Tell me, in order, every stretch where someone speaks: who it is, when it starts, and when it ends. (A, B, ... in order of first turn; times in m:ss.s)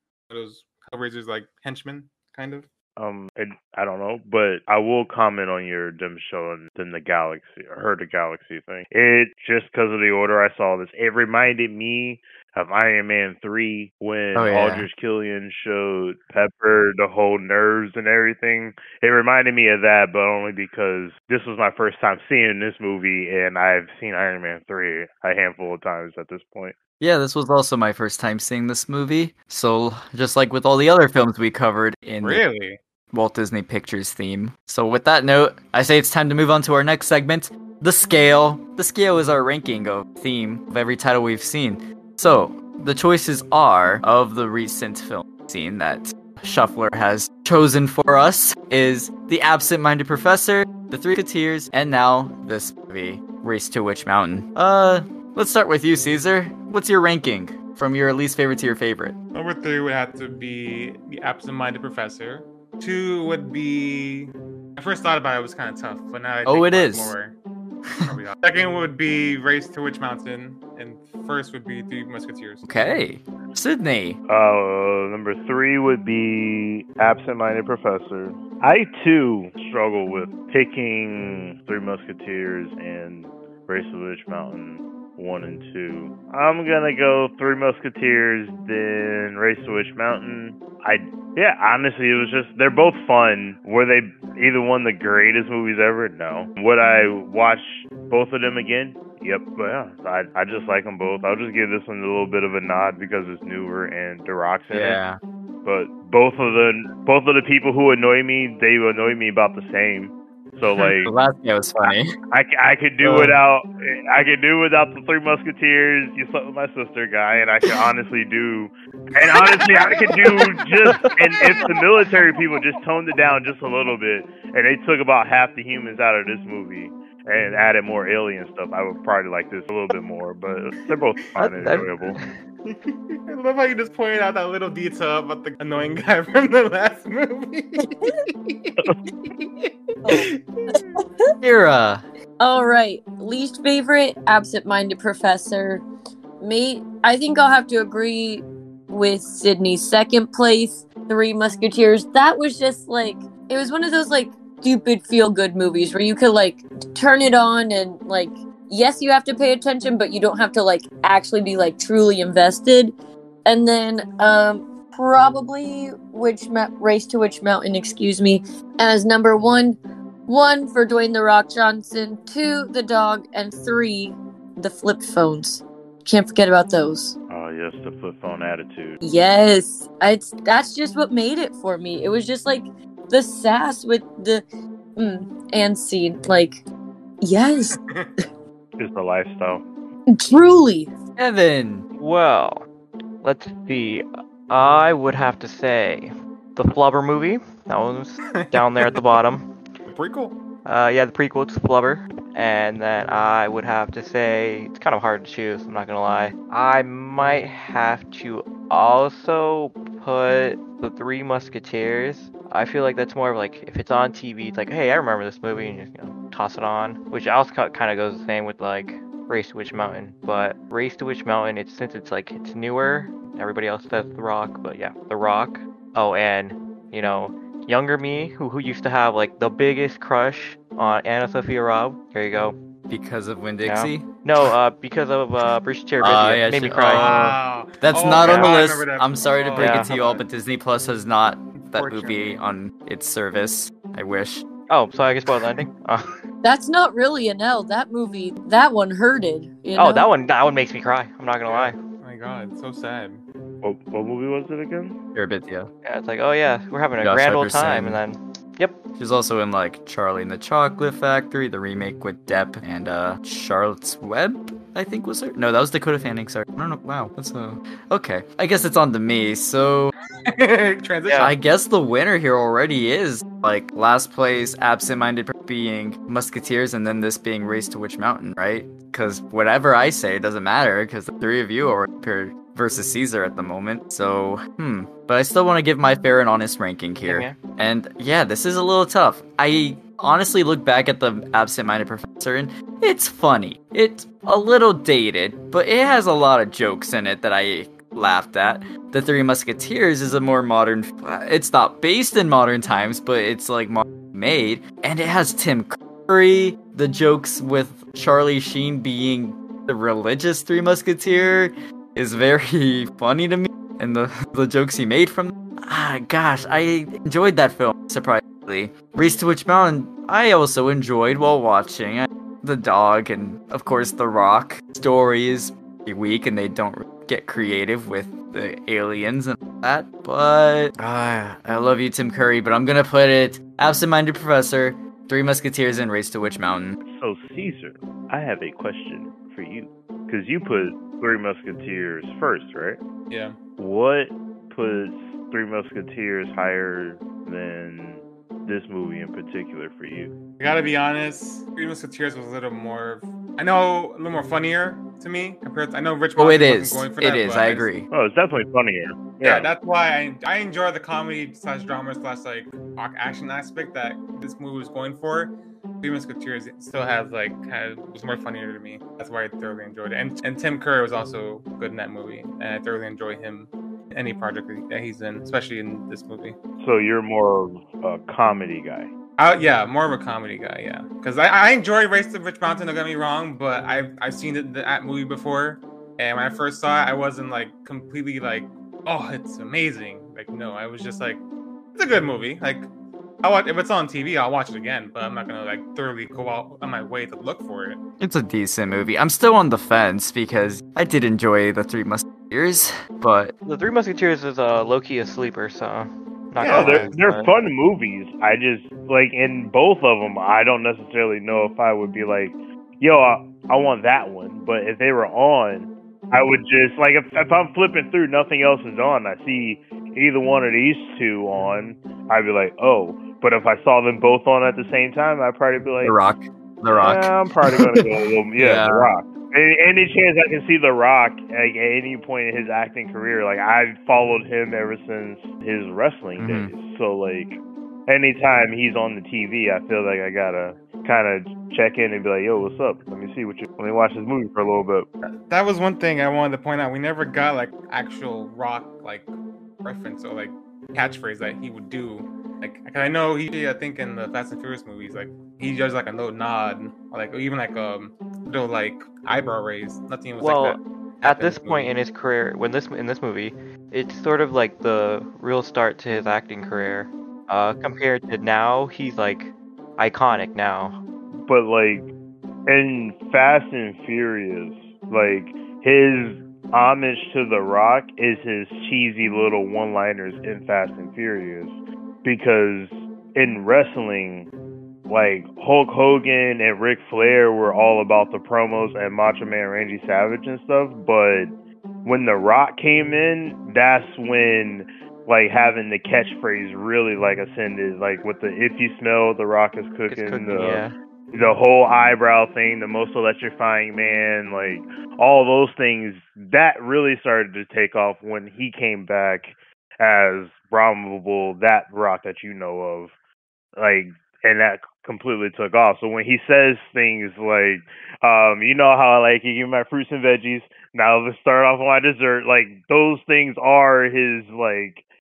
0:00.3-0:02.7 A
0:03.0-0:26.8 B
0:14.3-0:14.9 C
0:27.0-0:32.4 C
0:32.2-0:32.8 A
0:33.1-0:59.1 C
0:59.3-1:07.3 A
1:06.4-1:07.2 C
1:08.0-1:12.6 A
1:12.6-1:14.2 C
1:14.3-1:45.0 B
1:44.7-1:45.2 C
1:45.6-1:51.1 B
1:51.0-1:52.1 C
1:52.3-2:12.2 B
1:53.0-1:53.4 C
1:59.7-2:00.3 A
2:11.4-2:12.3 D
2:13.2-2:20.8 A
2:20.0-2:21.0 E
2:21.4-2:22.0 C
2:22.4-2:25.8 E
2:26.4-2:42.9 E
2:43.4-2:57.2 E
2:57.3-2:59.0 B
2:59.0-3:04.4 E
3:05.0-3:06.6 E
3:07.2-3:07.8 E
3:07.7-3:08.1 A
3:08.8-3:09.6 B
3:10.1-3:10.9 E
3:11.2-3:11.8 C
3:12.0-3:12.6 D
3:13.2-3:19.5 D
3:18.3-3:19.1 A
3:19.9-3:20.4 A
3:20.6-3:52.6 D
3:52.9-3:54.1 C
3:53.6-3:57.3 D
3:56.0-4:04.4 C
3:56.9-4:00.2 A
3:58.2-3:58.5 D
3:59.6-3:59.9 D
4:01.6-4:02.4 A
4:04.7-4:06.0 D
4:06.4-4:10.1 E
4:09.8-4:11.8 D
4:11.5-4:13.2 A
4:13.6-4:15.0 B
4:15.1-4:15.7 C
4:15.8-4:18.8 D
4:17.0-4:18.0 C
4:19.0-4:29.9 C
4:30.2-4:31.3 A
4:31.0-4:31.3 D
4:31.2-5:36.8 C
4:47.0-4:47.4 D
5:36.8-5:42.8 B
5:43.1-5:43.3 A
5:43.6-5:50.1 B
5:50.4-5:57.7 A
5:56.2-5:57.9 C
5:57.9-5:59.5 B
5:59.2-6:16.4 A
6:16.6-6:18.9 B
6:19.2-6:31.2 A
6:31.7-6:32.7 A
6:33.2-6:37.8 A
6:38.0-6:43.3 C
6:43.4-6:47.3 D
6:46.4-6:46.8 A
6:46.4-7:06.0 B
7:05.8-7:07.8 C
7:06.7-7:24.9 B
7:08.4-7:08.9 C
7:16.2-7:16.5 C
7:25.3-7:29.1 A
7:29.6-7:41.8 A
7:40.2-7:50.8 D
7:51.2-7:51.9 B
7:52.5-8:04.3 B
8:04.9-8:11.3 B
8:11.8-8:32.9 B
8:19.9-8:20.7 D
8:33.6-8:44.8 B